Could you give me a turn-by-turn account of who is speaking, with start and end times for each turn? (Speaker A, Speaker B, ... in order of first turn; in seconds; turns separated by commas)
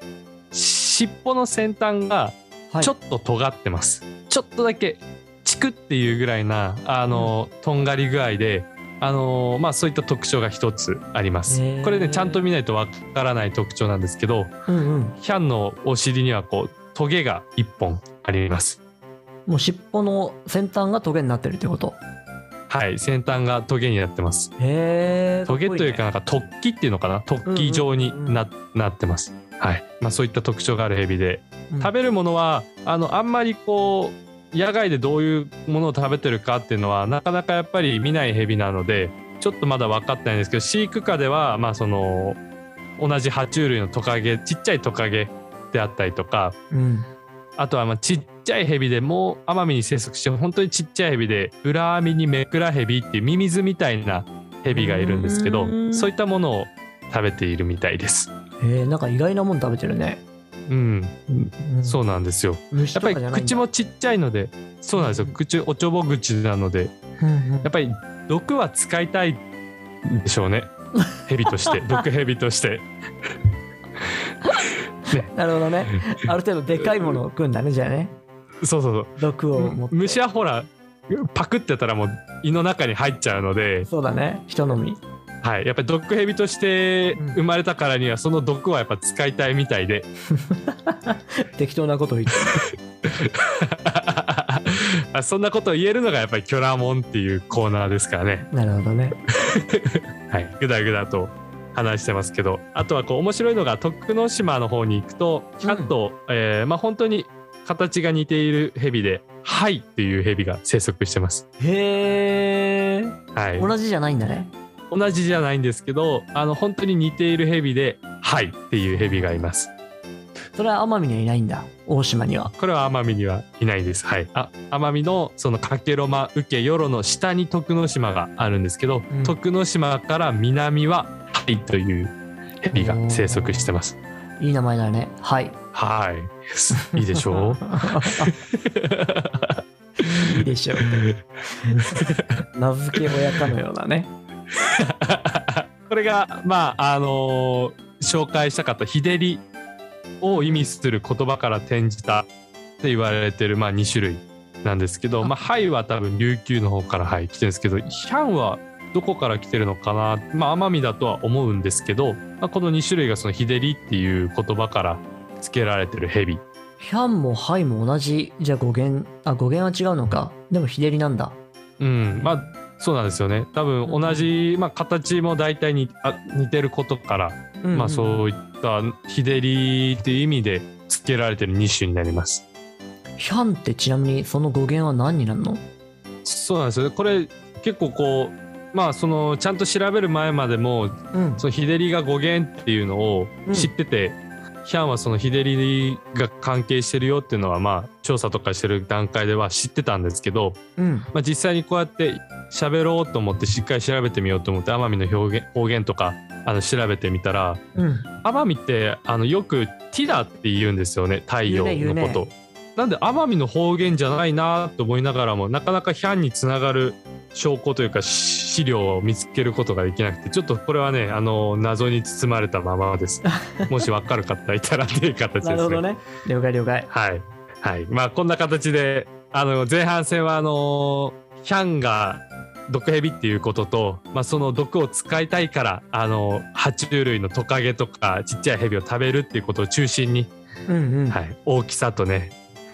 Speaker A: 0.5-14.6, Speaker B: 11.5-12.4, Speaker B: 14.7-15.2, Speaker A: 15.2-18.8, Speaker B: 19.4-22.0, Speaker A: 22.7-24.5, Speaker B: 24.6-26.0, Speaker A: 25.5-42.4, Speaker B: 27.4-28.4, Speaker A: 43.0-46.5, Speaker B: 46.7-47.1, Speaker A: 47.6-58.3, Speaker B: 54.7-56.1, Speaker B: 58.6-60.2, Speaker A: 60.7-66.9, Speaker B: 61.6-62.0, Speaker B: 62.7-63.6, Speaker B: 65.0-65.4, Speaker B: 67.2-67.7, Speaker A: 67.6-69.4, Speaker A: 70.0-70.7, Speaker A: 71.2-72.9, Speaker B: 71.7-72.0, Speaker B: 75.1-78.2, Speaker A: 78.6-83.9, Speaker B: 79.2-80.2, Speaker B: 83.9-85.0, Speaker A: 85.4-90.1, Speaker B: 90.3-92.6, Speaker A: 93.0-98.5, Speaker B: 98.5-99.1, Speaker A: 99.5-111.4, Speaker B: 105.6-105.9, Speaker B: 111.6-114.5, Speaker A: 113.3-113.7, Speaker A: 114.9-119.7, Speaker B: 118.9-119.3, Speaker B: 120.5-122.5, Speaker A: 122.6-133.9, Speaker B: 129.1-129.3, Speaker B: 132.7-133.7, Speaker B: 134.4-135.6, Speaker A: 135.7-141.2, Speaker B: 136.9-138.3, Speaker B: 140.0-140.9, Speaker B: 141.6-141.9, Speaker A: 141.7-142.3, Speaker B: 142.5-144.1, Speaker A: 144.6-149.4, Speaker A: 150.2-152.3, Speaker B: 150.2-150.7, Speaker A: 152.8-166.4, Speaker B: 166.8-171.4, Speaker A: 171.8-182.4, Speaker B: 172.1-172.5, Speaker B: 173.8-174.3, Speaker B: 177.6-178.2, Speaker B: 183.2-185.6, Speaker A: 186.2-200.6, Speaker B: 191.1-191.4, Speaker B: 193.4-193.7, Speaker B: 200.8-201.1, Speaker A: 201.1-207.6, Speaker B: 207.8-208.1, Speaker A: 208.2-225.8, Speaker B: 211.4-212.2, Speaker B: 223.4-223.8, Speaker B: 225.4-226.9, Speaker A: 226.9-240.3, Speaker B: 240.7-241.2, Speaker A: 241.1-242.3